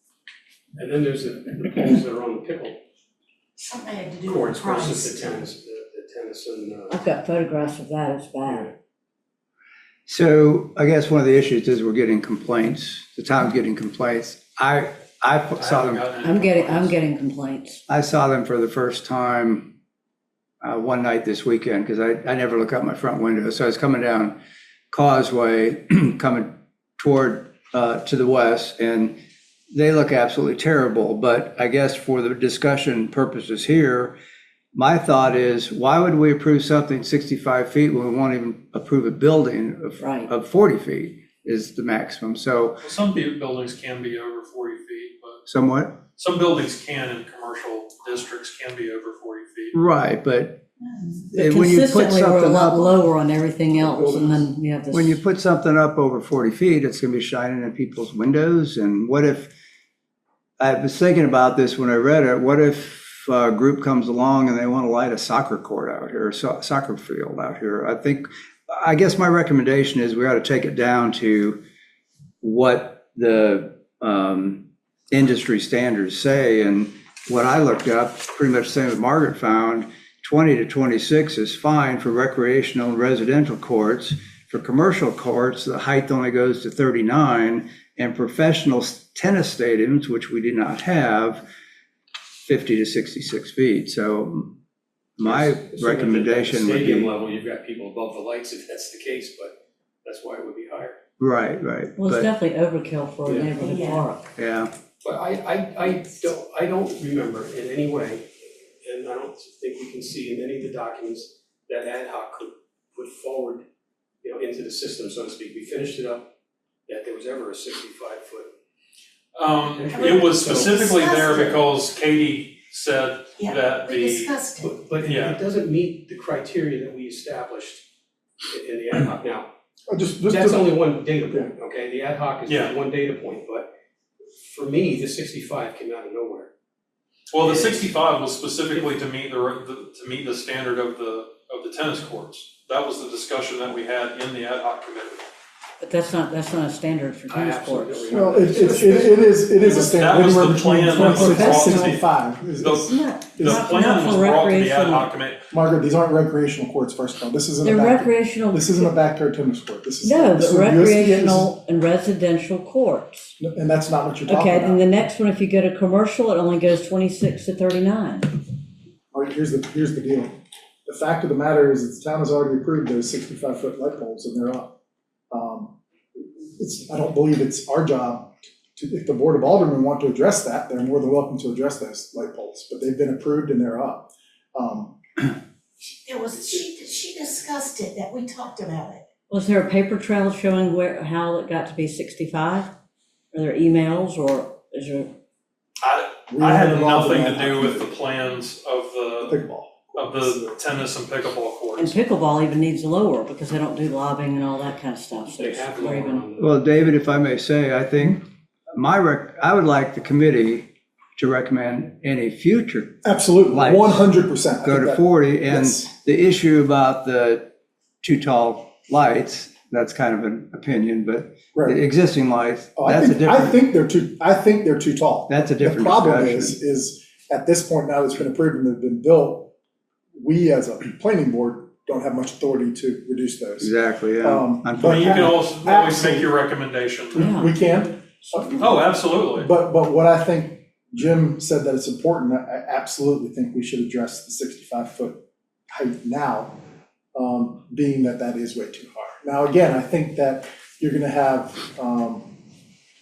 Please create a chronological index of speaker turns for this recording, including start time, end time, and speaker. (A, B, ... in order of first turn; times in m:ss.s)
0:00.7-0:02.8 A
0:03.6-0:05.4 B
0:04.2-0:07.0 A
0:06.9-0:08.7 C
0:10.1-0:16.0 D
0:15.6-0:17.0 E
0:16.2-0:17.8 C
0:17.9-0:19.7 D
0:20.6-0:24.4 D
0:24.9-0:29.2 D
0:29.7-0:34.2 D
0:34.7-0:42.8 D
0:40.0-0:40.3 C
0:42.8-0:45.4 E
0:45.4-0:46.0 D
0:46.2-0:49.8 E
0:49.7-0:50.6 D
0:51.3-0:53.0 D
0:51.3-0:55.2 C
0:53.8-0:54.4 F
0:54.9-0:59.5 D
1:00.6-1:11.6 D
1:12.4-1:31.4 D
1:32.4-1:34.6 D
1:35.2-1:37.1 D
1:35.2-1:41.0 A
1:41.2-1:42.3 D
1:42.0-1:44.3 C
1:43.2-1:43.6 A
1:43.6-1:44.0 B
1:44.4-1:44.7 D
1:45.0-1:48.3 A
1:48.8-1:53.6 A
1:54.2-1:56.3 A
1:56.9-1:58.5 A
1:59.3-2:04.4 E
1:59.7-2:00.8 A
1:59.9-2:01.5 B
2:03.4-2:04.7 B
2:04.6-2:07.9 A
2:05.0-2:05.4 E
2:08.5-2:09.5 A
2:09.9-2:11.5 F
2:10.2-2:13.7 A
2:12.4-2:12.8 E
2:14.3-2:16.5 A
2:17.3-2:25.2 E
2:17.3-2:17.9 A
2:25.8-2:28.1 C
2:27.3-2:29.8 A
2:28.1-2:34.1 F
2:29.8-2:32.0 E
2:30.9-2:32.0 C
2:32.6-2:35.4 E
2:32.7-2:35.1 C
2:35.5-2:41.5 F
2:37.6-2:38.9 C
2:40.0-2:43.4 C
2:43.4-2:44.8 F
2:44.2-2:48.3 C
2:49.1-2:50.3 F
2:50.8-2:54.7 F
2:55.3-3:05.0 F
3:05.8-3:09.0 B
3:09.3-3:12.7 C
3:13.3-3:15.1 C
3:15.8-3:19.4 E
3:16.3-3:17.9 F
3:19.2-3:20.6 F
3:20.0-3:21.9 E
3:21.8-3:26.2 C
3:25.3-3:26.6 A
3:26.4-3:34.1 D
3:33.0-3:35.8 F
3:34.6-3:43.6 D
3:41.5-3:41.8 F
3:42.8-3:49.5 F
3:45.3-3:46.6 D
3:50.1-3:53.7 F
3:53.6-3:55.4 D
3:54.2-3:56.3 F
3:54.8-3:57.2 E
3:57.1-4:06.6 F
3:57.1-3:58.7 C
3:58.6-3:59.5 E
4:07.1-4:12.3 F